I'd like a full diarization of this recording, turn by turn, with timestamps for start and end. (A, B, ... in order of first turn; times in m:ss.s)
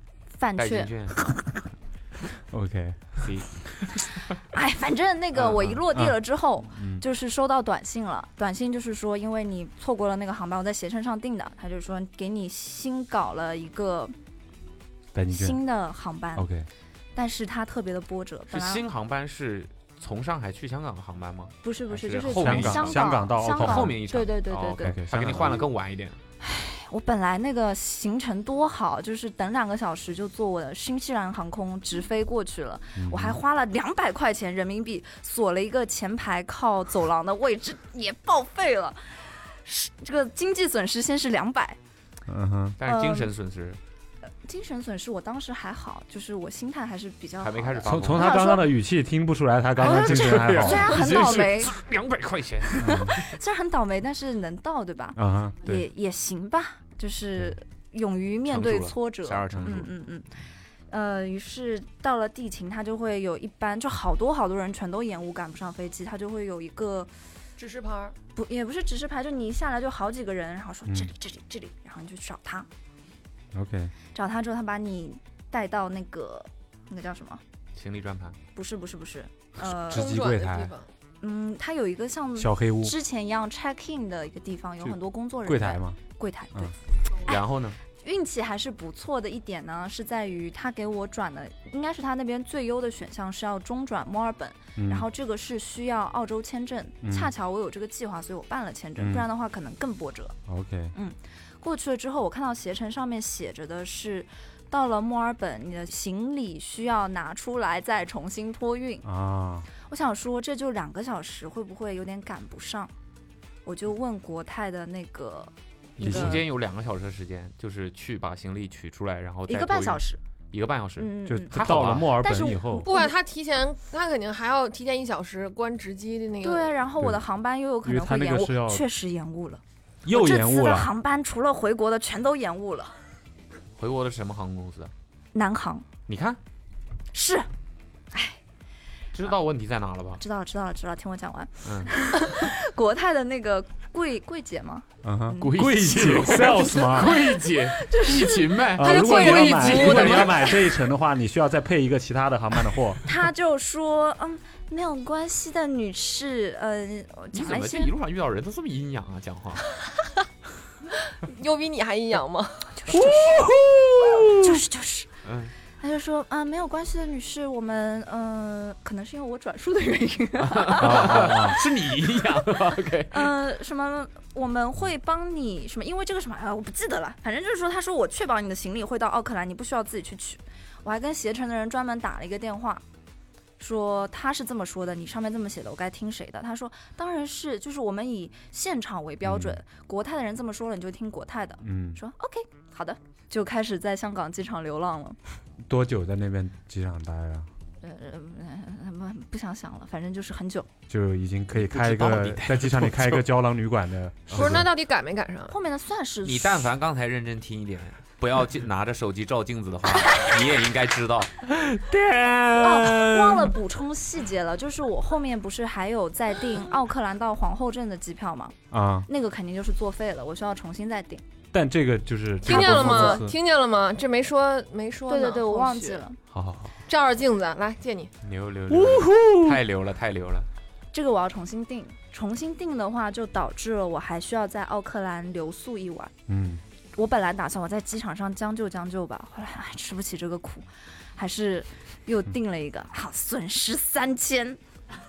0:00.4-0:01.3 A
0:00.6-0:01.2 B
0:02.5-0:03.2 C
0:03.2-0:04.2 B
0:04.5-0:14.1 A
0:05.4-0:05.8 B
0:06.7-0:07.0 C
0:15.1-0:15.6 C
0:15.3-0:16.5 A
0:16.4-0:16.7 C
0:17.1-0:18.8 A
0:18.5-0:26.2 B
0:21.6-0:25.1 A
0:22.4-0:24.0 C
0:24.8-0:25.7 C
0:26.4-0:39.0 A
0:33.0-0:33.4 C
0:39.6-0:41.8 A
0:42.3-0:42.8 C
0:42.8-0:43.8 B
0:42.8-0:43.3 A
0:44.4-0:48.7 A
0:47.4-0:48.3 B
0:47.8-0:51.2 C
0:49.8-0:53.3 B
0:49.8-0:51.7 A
0:52.7-1:00.3 A
0:52.8-0:53.1 C
0:55.2-0:55.8 C
0:58.5-0:59.9 B
1:00.9-1:07.1 A
1:07.6-1:08.2 D
1:08.4-1:12.7 A
1:10.9-1:11.1 C
1:13.5-1:13.9 C
1:14.1-1:17.4 A
1:17.8-1:18.4 B
1:18.5-1:20.2 A
1:19.6-1:20.7 C
1:19.9-1:20.9 D
1:21.2-1:26.7 A
1:22.4-1:22.9 C
1:24.8-1:26.0 C
1:27.2-1:27.8 B
1:28.0-1:40.4 A
1:34.8-1:35.0 C
1:37.0-1:37.3 C
1:39.0-1:39.2 C
1:40.5-1:40.9 C
1:40.9-1:49.0 A
1:49.0-1:49.7 C
1:49.8-1:52.9 A
1:53.6-1:56.4 A
1:56.0-2:02.2 B
1:56.0-1:56.4 C
1:59.5-2:00.2 A
2:01.0-2:03.1 A
2:01.3-2:02.9 C
2:02.8-2:06.8 D
2:06.4-2:12.9 A
2:07.8-2:08.8 C
2:10.0-2:10.9 C
2:13.8-2:14.9 B
2:15.3-2:15.8 A
2:16.1-2:16.4 B
2:17.1-2:17.5 A
2:18.1-2:18.4 A
2:19.1-2:20.2 B
2:20.2-2:25.5 A
2:21.6-2:21.9 B
2:25.0-2:27.2 C
2:25.4-2:30.6 B
2:27.7-2:28.6 A
2:28.7-2:33.1 C
2:28.8-2:30.5 D
2:33.0-2:37.9 A
2:37.3-2:39.7 B
2:41.0-2:42.7 D
2:42.8-2:43.4 A
2:42.9-2:44.3 C
2:44.3-2:45.1 A
2:45.2-2:45.5 B
2:45.8-2:51.5 A
2:50.4-2:53.3 B
2:50.8-2:51.6 C
2:53.1-3:02.8 A
3:03.6-3:15.2 A
3:09.2-3:09.6 C
3:11.6-3:12.0 C
3:15.6-3:17.5 C
3:17.8-3:20.7 A
3:20.9-3:24.7 C
3:21.5-3:23.3 B
3:24.3-3:24.6 B
3:24.3-3:25.5 D
3:25.5-3:26.7 A
3:26.2-3:31.5 B
3:31.6-3:33.6 C
3:32.6-3:41.2 A
3:38.7-3:39.1 C
3:41.5-3:43.3 C
3:42.4-3:46.0 D
3:45.1-3:46.2 A
3:46.3-3:46.8 B
3:46.9-3:48.1 D
3:48.2-3:50.5 B
3:48.7-3:49.6 C
3:50.9-3:56.1 A
3:56.3-3:56.6 C
3:57.0-4:04.6 A